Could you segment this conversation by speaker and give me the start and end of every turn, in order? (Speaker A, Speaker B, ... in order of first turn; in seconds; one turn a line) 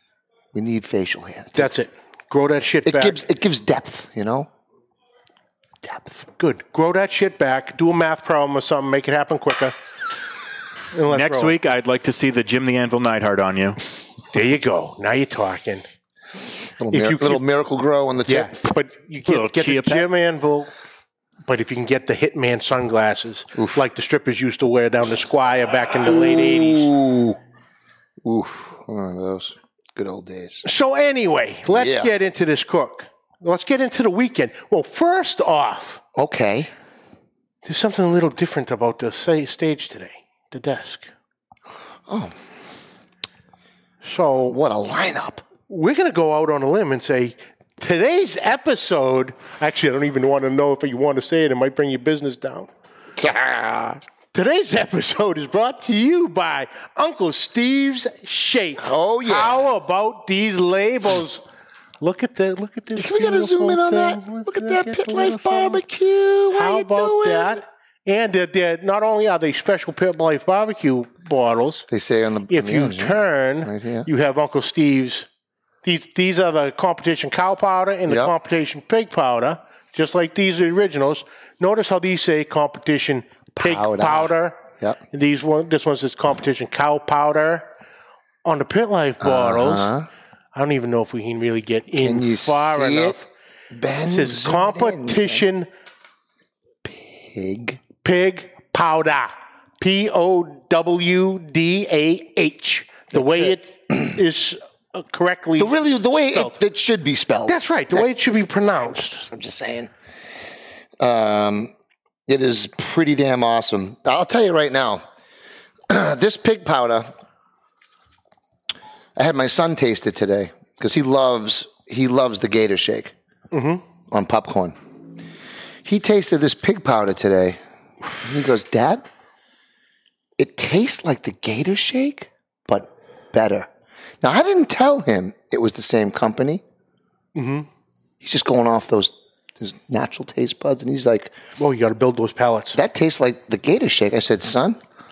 Speaker A: 0.5-1.7
Speaker B: 1.5-3.2
Speaker A: 2.8-4.5
Speaker A: 5.8-6.2
Speaker B: 6.4-9.7
Speaker B: 10.9-11.6
Speaker C: 11.1-13.8
Speaker B: 14.3-15.9
Speaker A: 16.8-18.5
Speaker B: 16.9-17.4
Speaker B: 18.2-20.7
Speaker C: 19.3-20.1
Speaker B: 21.4-26.9
Speaker A: 23.5-23.8
Speaker A: 26.1-27.4
Speaker A: 28.2-30.6
Speaker B: 30.6-36.0
Speaker A: 31.7-32.1
Speaker A: 36.1-36.7
Speaker B: 37.6-41.1
Speaker A: 42.1-42.3
Speaker B: 44.0-44.6
Speaker A: 44.5-45.4
Speaker B: 45.6-52.7
Speaker A: 53.2-54.0
Speaker B: 54.3-61.4
Speaker A: 58.8-59.6
Speaker B: 62.0-65.8
Speaker A: 63.0-67.6
Speaker B: 66.5-71.9
Speaker A: 71.9-74.1
Speaker B: 72.5-75.3
Speaker B: 75.8-87.7
Speaker A: 78.1-78.3
Speaker A: 83.5-85.0
Speaker B: 88.4-89.9
Speaker A: 89.2-90.1
Speaker B: 90.5-93.2
Speaker A: 92.0-93.2
Speaker A: 93.7-95.5
Speaker B: 94.1-95.7
Speaker A: 96.8-97.8
Speaker B: 98.0-106.6
Speaker A: 103.1-103.5
Speaker A: 105.6-108.0
Speaker B: 107.5-109.2
Speaker A: 109.1-109.9
Speaker A: 111.0-111.7
Speaker A: 112.3-115.0
Speaker A: 115.9-117.1
Speaker A: 119.2-123.1
Speaker B: 123.5-123.8
Speaker A: 124.1-124.8
Speaker A: 125.8-127.6
Speaker A: 128.2-129.0
Speaker A: 130.4-133.7
Speaker A: 134.2-136.6
Speaker B: 137.3-137.7
Speaker A: 138.2-141.3
Speaker B: 141.6-142.8
Speaker A: 142.7-144.8